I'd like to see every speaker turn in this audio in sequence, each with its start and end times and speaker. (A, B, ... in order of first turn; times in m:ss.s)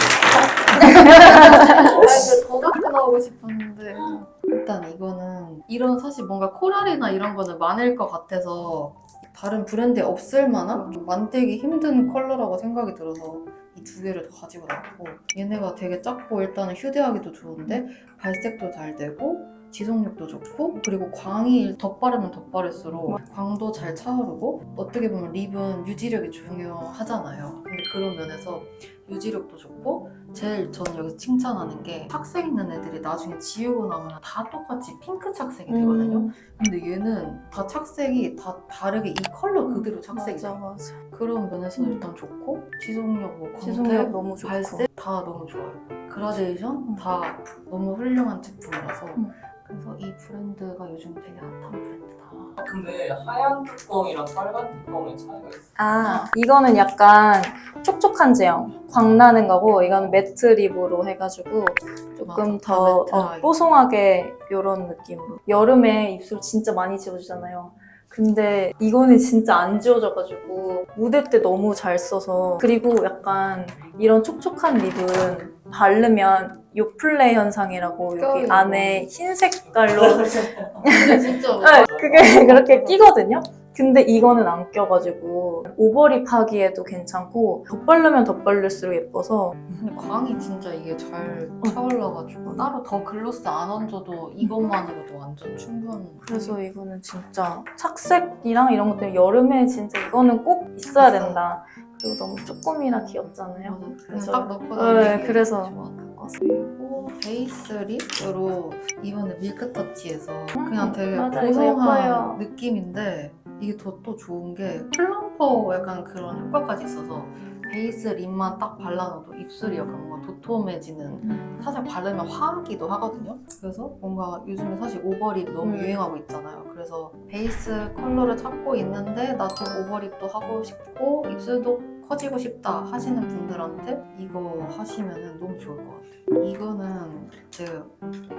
0:00.4-0:40.6 A
0:00.8-0:02.0 B
0:10.7-0:11.0 B
0:35.7-0:36.4 B
0:39.6-0:41.0 B
0:41.1-0:52.6 A
0:41.8-0:42.1 B
0:43.6-0:44.9 B
0:46.8-0:47.1 B
0:52.6-0:55.6 C
0:55.8-1:29.8 B
0:56.0-0:56.3 A
1:02.2-1:03.6 A
1:18.2-1:19.1 A
1:19.7-1:20.8 C
1:20.8-1:23.0 A
1:21.6-1:22.4 C
1:29.8-1:36.6 A
1:36.2-1:45.8 B
1:41.0-1:41.4 A
1:43.6-2:18.0 A
1:50.6-1:52.4 B
2:01.2-2:01.6 B
2:05.6-2:06.0 B